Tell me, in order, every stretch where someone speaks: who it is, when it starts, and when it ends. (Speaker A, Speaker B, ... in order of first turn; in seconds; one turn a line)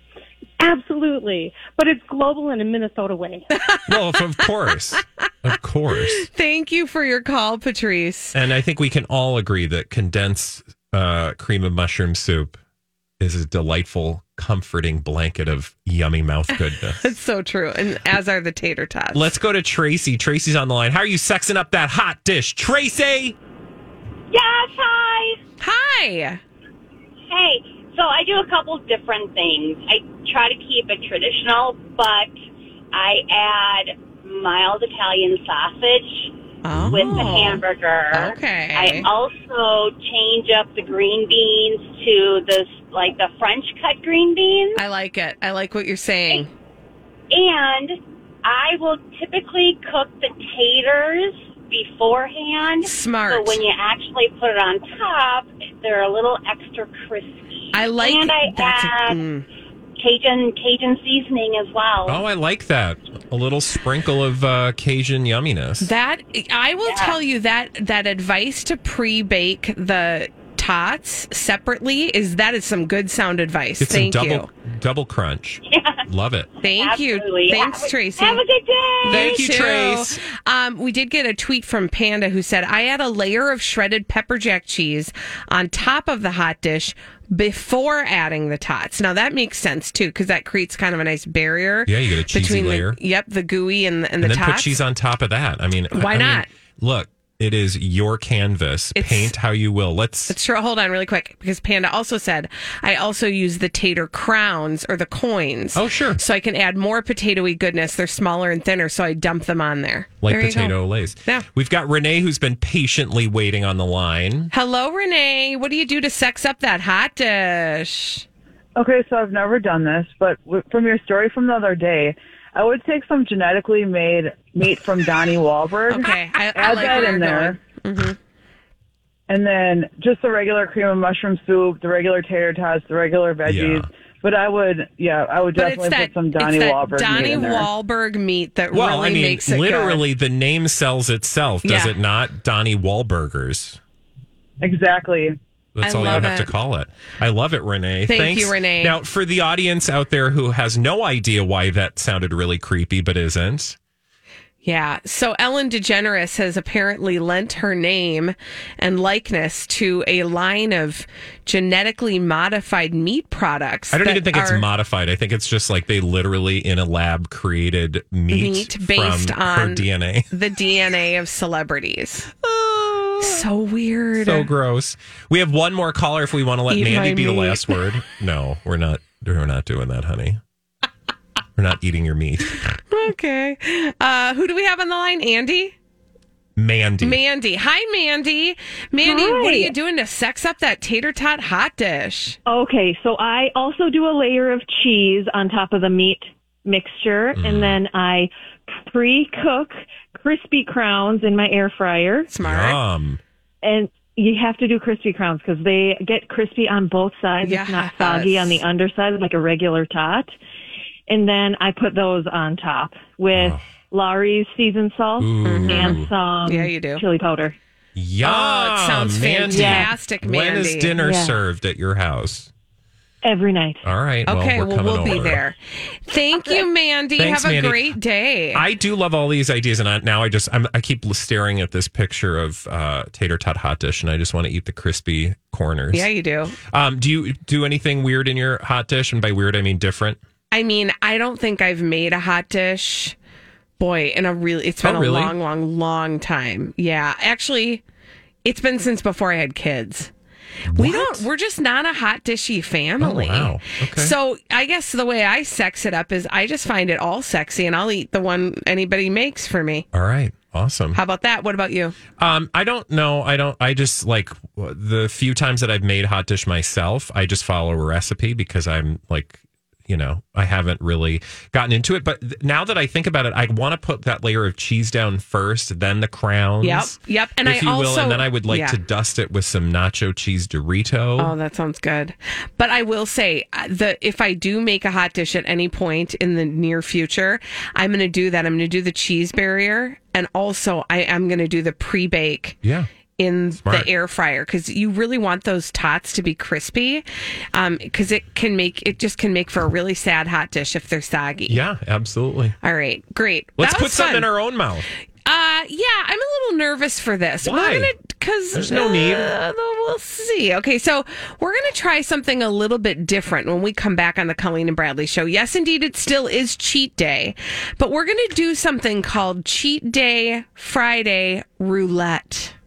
Speaker A: 0.6-3.5
Speaker B: 3.5-4.7
Speaker C: 3.9-6.3
Speaker B: 6.0-8.3
Speaker C: 8.3-12.6
Speaker C: 13.2-17.1
Speaker B: 17.0-19.3
Speaker C: 19.1-23.4
Speaker D: 24.3-25.4
Speaker B: 25.6-26.4
Speaker D: 27.3-32.3
Speaker D: 32.9-36.3
Speaker B: 36.6-39.1
Speaker C: 36.7-37.4
Speaker D: 36.9-44.8
Speaker B: 44.8-46.5
Speaker D: 47.3-59.2
Speaker B: 52.8-53.6
Speaker B: 57.7-59.4
Speaker D: 60.0-62.2
Speaker C: 62.0-65.9
Speaker B: 65.8-74.5
Speaker D: 66.9-67.2
Speaker C: 73.8-76.5
Speaker D: 75.7-76.0
Speaker D: 76.6-79.6
Speaker B: 76.6-78.4
Speaker B: 79.0-94.8
Speaker C: 79.0-80.2
Speaker C: 91.8-93.0
Speaker C: 94.2-100.3
Speaker B: 95.9-96.5
Speaker B: 98.9-99.3
Speaker B: 100.3-111.5
Speaker C: 105.7-106.2
Speaker C: 110.2-114.5
Speaker B: 114.5-118.2
Speaker E: 118.8-127.6
Speaker B: 125.9-128.2
Speaker E: 129.3-137.7
Speaker C: 133.4-133.9
Speaker B: 135.5-140.0
Speaker C: 138.7-143.8
Speaker B: 141.6-141.9
Speaker E: 144.6-145.4
Speaker C: 145.7-153.8
Speaker B: 145.8-146.5
Speaker B: 148.1-148.9
Speaker B: 154.6-164.6
Speaker C: 163.9-170.3
Speaker B: 168.3-172.3
Speaker C: 172.4-173.4
Speaker B: 173.2-174.5
Speaker C: 174.1-180.4
Speaker B: 176.7-177.8
Speaker C: 181.6-182.8
Speaker B: 182.9-185.7
Speaker C: 186.6-187.2
Speaker B: 187.0-192.4
Speaker F: 189.0-189.7
Speaker F: 192.4-202.3
Speaker C: 197.3-197.8
Speaker B: 202.3-202.8
Speaker C: 202.4-203.2
Speaker F: 203.6-210.3
Speaker B: 207.4-208.6
Speaker F: 211.1-217.6
Speaker C: 213.3-213.7
Speaker C: 215.2-216.1
Speaker B: 215.4-217.0
Speaker C: 217.9-222.5
Speaker B: 218.2-220.9
Speaker F: 219.5-219.9
Speaker F: 221.0-221.4
Speaker F: 223.2-223.8
Speaker C: 223.8-225.4
Speaker B: 224.2-228.6
Speaker C: 227.2-227.9
Speaker C: 228.5-236.1
Speaker B: 235.9-236.6
Speaker C: 236.6-240.2
Speaker B: 240.5-243.1
Speaker B: 243.8-247.8
Speaker C: 244.8-245.3
Speaker B: 248.4-250.1
Speaker C: 250.7-251.3
Speaker B: 250.7-259.9
Speaker C: 253.0-254.1
Speaker C: 259.9-261.0
Speaker B: 260.9-261.9
Speaker C: 262.2-281.3
Speaker B: 276.6-278.8
Speaker B: 281.2-292.6
Speaker C: 292.6-292.9
Speaker B: 293.2-301.6
Speaker C: 301.5-302.6
Speaker B: 302.6-304.3
Speaker C: 303.6-304.9
Speaker B: 305.2-322.5
Speaker C: 307.4-307.9
Speaker C: 308.5-309.3